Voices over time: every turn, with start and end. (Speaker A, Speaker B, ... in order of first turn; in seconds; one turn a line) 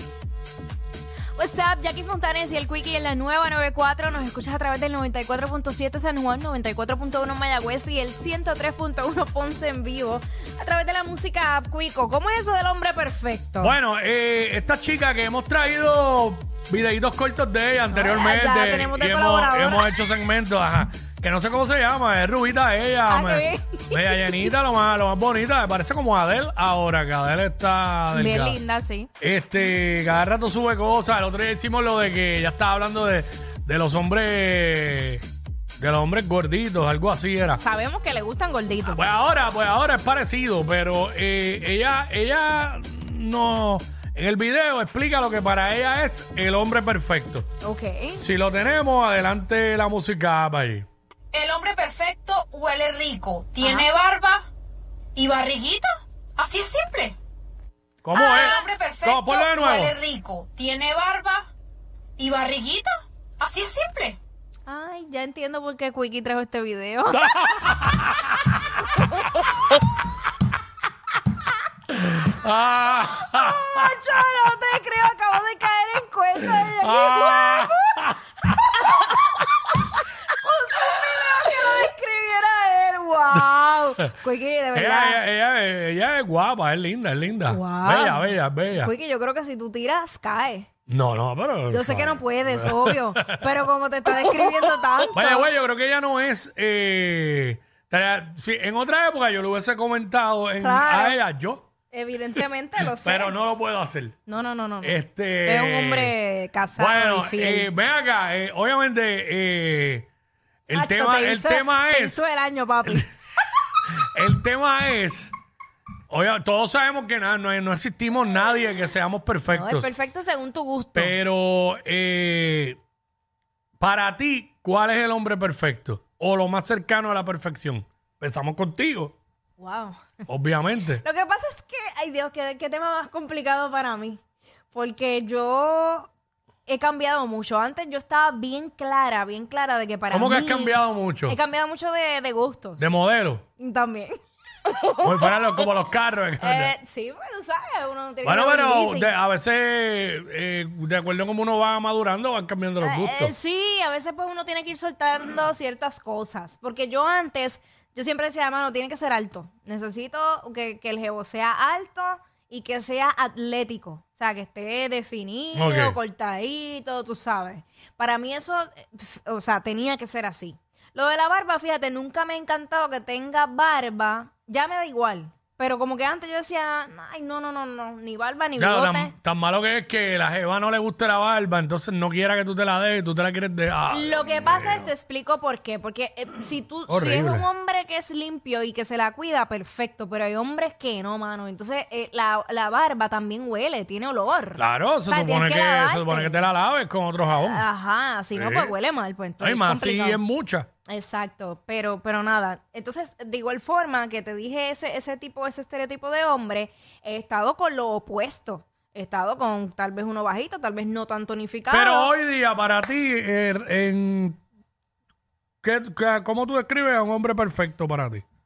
Speaker A: 1.4-13.8
Speaker B: 13.6-28.6
Speaker A: 17.9-19.9
Speaker A: 23.1-24.5
Speaker A: 28.1-29.1
Speaker B: 29.2-35.2
Speaker B: 35.8-37.6
Speaker A: 37.5-39.0
Speaker B: 38.8-47.5
Speaker A: 47.6-48.2
Speaker B: 48.2-50.9
Speaker C: 51.3-54.5
Speaker A: 53.6-53.9
Speaker C: 55.1-57.2
Speaker B: 58.0-60.0
Speaker C: 58.1-61.5
Speaker C: 62.2-64.2
Speaker A: 64.7-67.3
Speaker B: 67.1-68.5
Speaker B: 71.9-74.2
Speaker A: 73.0-78.1
Speaker B: 76.6-79.0
Speaker A: 78.7-85.2
Speaker B: 84.7-88.9
Speaker A: 87.5-90.7
Speaker B: 90.9-93.7
Speaker A: 91.7-95.5
Speaker B: 94.2-101.7
Speaker A: 100.6-101.2
Speaker A: 101.9-103.4
Speaker B: 102.3-104.2
Speaker A: 104.3-107.7
Speaker B: 104.8-106.2
Speaker B: 106.8-110.1
Speaker B: 110.7-112.2
Speaker A: 110.7-113.1
Speaker B: 114.1-115.3
Speaker B: 116.1-119.9
Speaker A: 119.5-121.2
Speaker B: 121.0-122.8
Speaker B: 123.8-129.2
Speaker A: 129.6-130.2
Speaker B: 130.3-131.0
Speaker A: 131.0-136.1
Speaker A: 136.7-142.9
Speaker B: 140.1-141.4
Speaker B: 142.8-143.4
Speaker A: 143.6-144.2
Speaker A: 144.7-145.1
Speaker B: 145.0-146.7
Speaker A: 146.4-149.1
Speaker B: 148.2-153.3
Speaker A: 152.8-179.1
Speaker B: 165.6-166.0
Speaker B: 178.6-184.9
Speaker A: 183.9-196.5
Speaker B: 186.9-187.5
Speaker B: 194.6-197.7
Speaker A: 197.3-200.2
Speaker B: 198.3-198.8
Speaker B: 199.4-200.7
Speaker A: 200.9-212.1
Speaker B: 211.7-214.4
Speaker B: 215.6-218.2